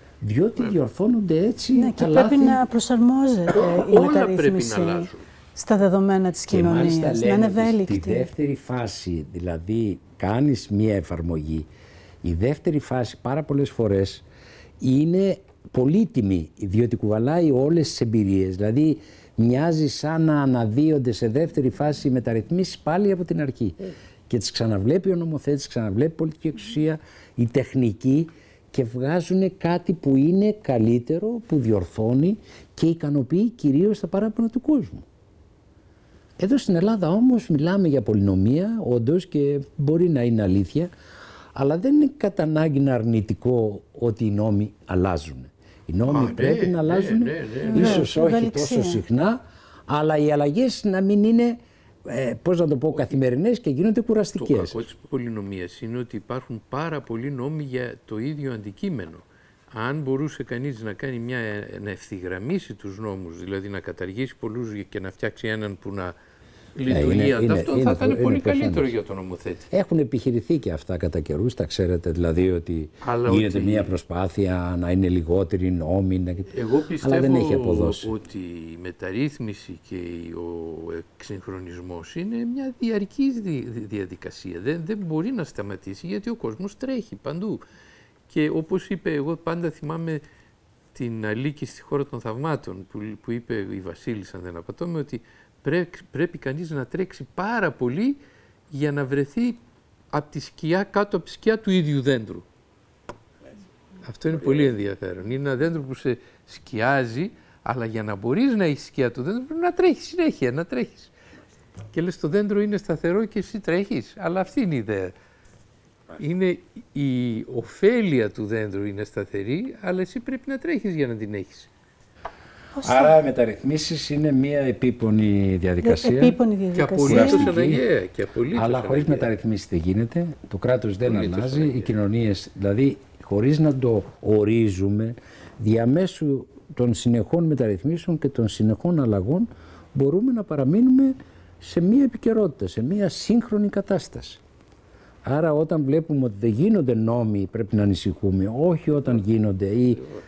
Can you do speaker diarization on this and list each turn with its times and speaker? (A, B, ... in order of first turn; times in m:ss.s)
0:00.2-0:02.6 A
0:01.7-0:08.3 B
0:03.5-0:05.2 C
0:06.5-0:11.7 A
0:12.2-0:14.2 A
0:14.8-0:23.8 A
0:24.3-0:35.0 A
0:36.4-0:40.9 A
0:41.6-0:54.9 A
0:46.1-0:48.0 C
0:47.7-0:49.0 B
0:54.4-1:06.2 C
1:06.8-1:09.7 C
1:06.9-1:08.9 A
1:09.7-1:18.1 A
1:13.0-1:14.0 C
1:16.5-1:27.6 C
1:28.3-1:30.2 C
1:30.9-1:42.4 C
1:44.0-1:51.1 C
1:51.9-1:55.1 C
1:56.2-2:01.7 C
2:02.7-2:03.2 B
2:02.8-2:06.4 A
2:05.8-2:07.5 B
2:06.7-2:09.3 C
2:07.0-2:07.8 A
2:08.5-2:24.4 A
2:11.0-2:11.9 C
2:25.2-2:30.0 A